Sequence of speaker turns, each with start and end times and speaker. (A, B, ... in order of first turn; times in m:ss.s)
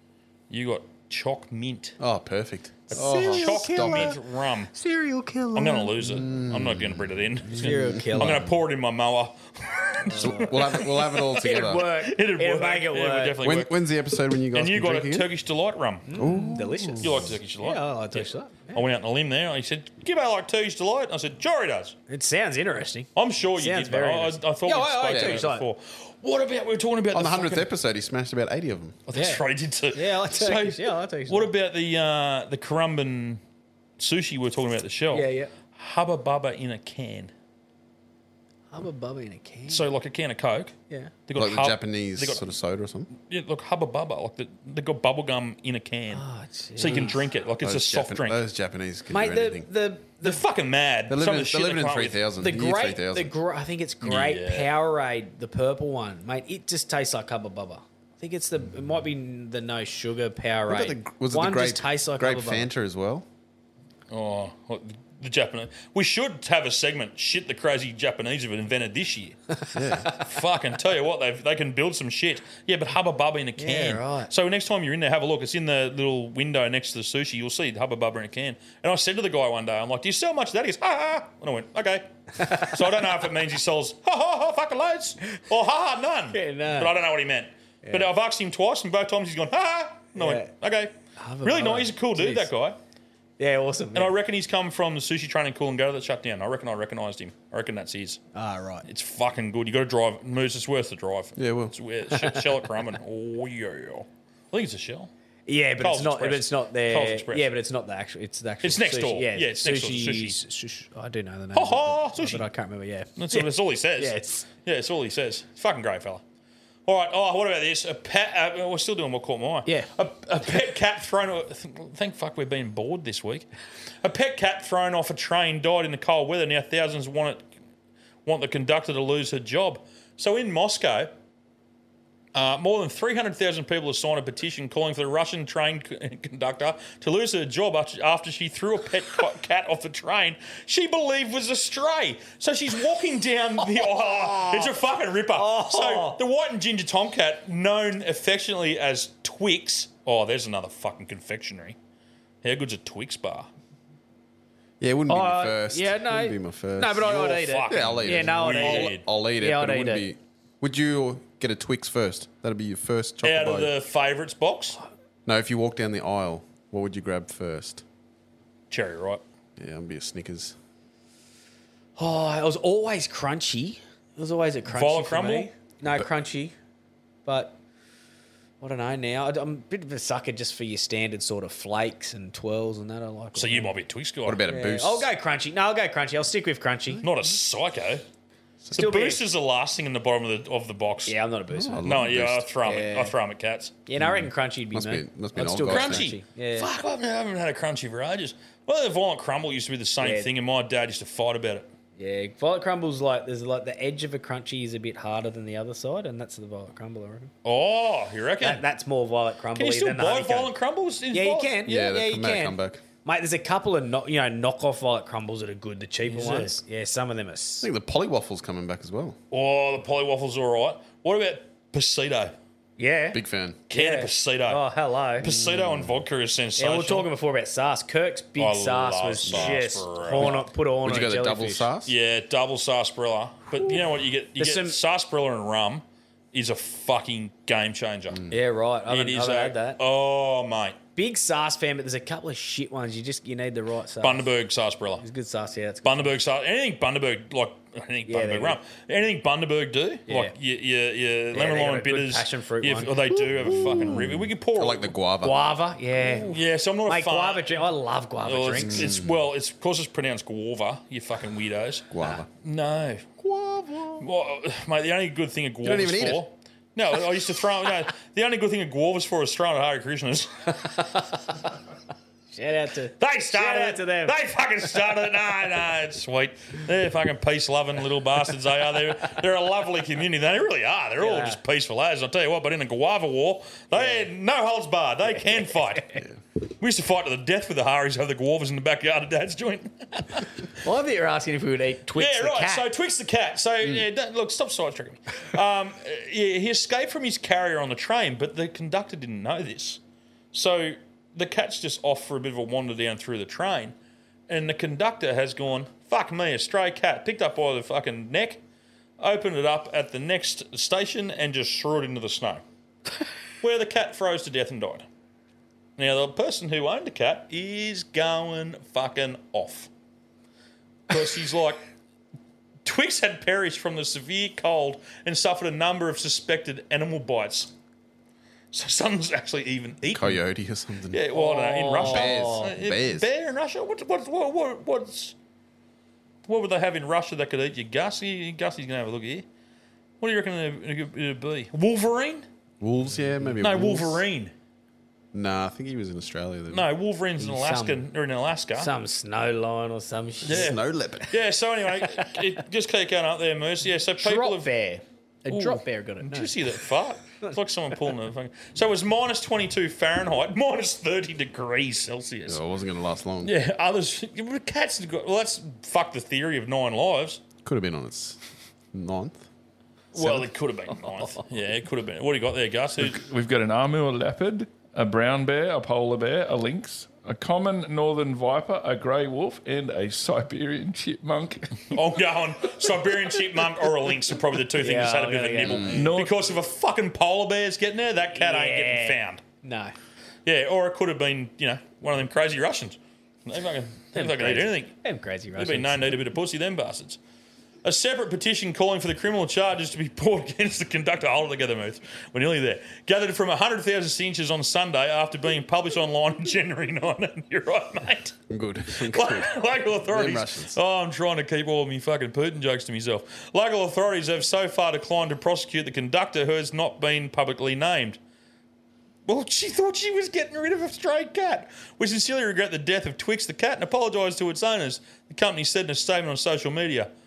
0:00.5-0:02.0 A
0:02.0-0:04.2 B
0:02.9-0:04.7 A
0:02.9-0:04.2 C
0:04.8-0:05.7 C
0:05.5-0:13.7 A
0:06.0-0:08.5 B
0:07.5-0:08.5 C
0:10.1-0:10.6 C
0:10.1-0:11.9 B
0:11.4-0:13.4 C
0:13.4-0:15.3 B
0:14.5-0:16.1 A
0:16.1-0:18.8 C
0:16.1-0:17.3 B
0:17.0-0:22.0 A
0:22.1-0:25.7 C
0:23.1-0:27.7 A
0:25.1-0:25.5 B
0:27.1-0:29.0 B
0:29.1-0:33.4 A
0:29.1-0:31.5 C
0:34.0-0:37.3 A
0:35.1-0:35.5 C
0:38.7-0:39.9 C
0:39.7-0:40.7 A
0:41.3-0:42.5 A
0:41.3-0:43.1 B
0:43.2-0:46.2 A
0:46.1-0:47.2 C
0:46.8-0:48.4 A
0:47.6-0:49.7 B
0:49.1-0:50.4 C
0:50.2-0:52.2 A
0:51.1-0:53.3 B
0:52.4-1:02.7 C
0:54.0-0:54.7 A
1:00.7-1:03.3 B
1:04.1-1:09.4 A
1:09.7-1:10.1 B
1:10.2-1:22.1 A
1:13.6-1:14.3 C
1:22.6-1:32.8 A
1:26.3-1:27.0 C
1:27.8-1:28.1 C
1:30.1-1:30.5 C
1:31.2-1:32.5 C
1:33.4-1:34.1 C
1:33.9-1:38.2 A
1:38.3-1:38.8 C
1:38.8-1:45.1 A
1:41.4-1:41.7 B
1:42.2-1:42.4 C
1:45.5-1:54.5 C
1:45.8-1:47.5 A
1:48.6-1:50.4 A
1:51.5-1:52.4 A
1:53.2-1:56.2 A
1:56.9-2:03.5 A
2:04.0-2:07.5 A
2:08.3-2:11.1 A
2:12.3-2:31.8 A
2:23.8-2:24.7 C
2:25.3-2:26.2 C
2:32.4-2:33.5 A
2:34.8-2:43.7 B
2:35.1-2:40.1 C
2:37.0-2:39.0 A
2:43.2-2:44.8 A
2:45.3-2:47.8 B
2:48.7-2:49.2 A
2:49.6-2:50.6 B
2:52.0-2:56.6 C
2:54.7-2:55.5 A
2:57.3-2:57.6 C
2:58.6-3:03.7 C
3:03.3-3:04.4 A
3:04.2-3:05.1 B
3:04.5-3:07.0 C
3:07.0-3:08.0 A
3:08.7-3:11.1 A
3:08.7-3:09.2 C
3:11.0-3:12.0 C
3:11.5-3:12.5 B
3:11.8-3:13.8 A
3:12.6-3:13.1 C
3:13.9-3:16.7 C
3:14.0-3:16.1 B
3:15.7-3:21.7 A
3:20.0-3:20.3 C
3:22.0-3:27.3 C
3:27.4-3:28.6 A
3:28.4-3:30.5 C
3:29.6-3:31.6 A
3:31.1-3:37.7 C
3:31.6-3:32.8 B
3:36.0-3:36.5 A
3:37.6-3:39.2 B
3:39.3-3:42.3 A
3:42.8-3:43.2 C
3:43.1-3:43.6 B
3:43.7-3:44.6 A
3:43.7-3:45.3 C
3:45.2-3:47.1 A
3:45.2-3:46.0 B
3:46.6-3:51.7 C
3:48.4-3:50.4 A
3:49.3-3:51.9 B
3:51.9-3:58.2 A
3:54.4-3:54.8 C
3:58.1-3:58.4 B
3:58.3-3:59.8 C
3:58.9-4:00.8 A
4:01.0-4:04.3 C
4:04.0-4:05.0 A
4:05.0-4:06.2 C
4:05.8-4:15.0 A
4:08.1-4:08.6 C
4:10.1-4:10.3 C
4:11.3-4:14.0 C
4:13.4-4:15.5 B
4:15.2-4:18.9 C
4:16.2-4:17.7 A
4:18.2-4:21.9 A
4:18.6-4:19.2 B
4:21.9-4:22.3 B
4:22.4-4:23.1 A
4:23.2-4:23.8 B
4:24.0-4:30.3 A
4:25.6-4:26.2 B
4:32.3-4:34.1 C
4:33.0-4:45.9 A
4:41.0-4:41.4 C
4:43.7-4:44.1 C
4:45.1-4:45.8 C
4:46.6-4:50.3 A
4:50.6-4:52.7 C
4:52.0-4:59.8 A
5:00.3-5:03.7 A
5:04.3-5:08.4 A
5:09.0-5:12.4 A
5:13.4-5:14.9 A
5:15.8-5:19.7 A
5:20.9-5:21.6 A
5:22.6-5:27.5 A
5:28.5-5:30.2 A
5:29.9-5:31.0 B
5:30.9-5:35.1 A
5:31.1-5:32.5 C
5:31.8-5:33.1 B
5:36.3-5:39.2 A
5:40.0-5:42.3 A
5:42.6-5:44.0 B
5:43.4-5:44.3 A
5:45.1-5:46.7 B
5:46.5-5:48.7 A
5:47.2-5:47.9 C
5:48.6-5:50.6 C
5:50.2-5:50.6 A
5:50.2-5:51.1 B
5:51.1-5:54.5 A
5:54.0-5:56.4 C
5:55.3-6:02.4 A
6:02.3-6:03.3 B
6:03.2-6:07.2 A
6:07.4-6:08.2 B
6:08.7-6:09.3 B
6:09.9-6:13.0 A
6:10.0-6:10.3 C
6:12.8-6:21.5 D
6:21.7-6:29.2 A
6:24.6-6:25.9 C
6:25.5-6:25.8 B
6:25.7-6:26.1 D
6:28.1-6:29.7 C
6:30.3-6:34.7 A
6:34.0-6:35.9 C
6:35.4-6:37.0 A
6:37.6-6:48.2 A
6:48.3-6:50.6 B
6:48.9-6:58.0 A
6:59.1-7:06.9 A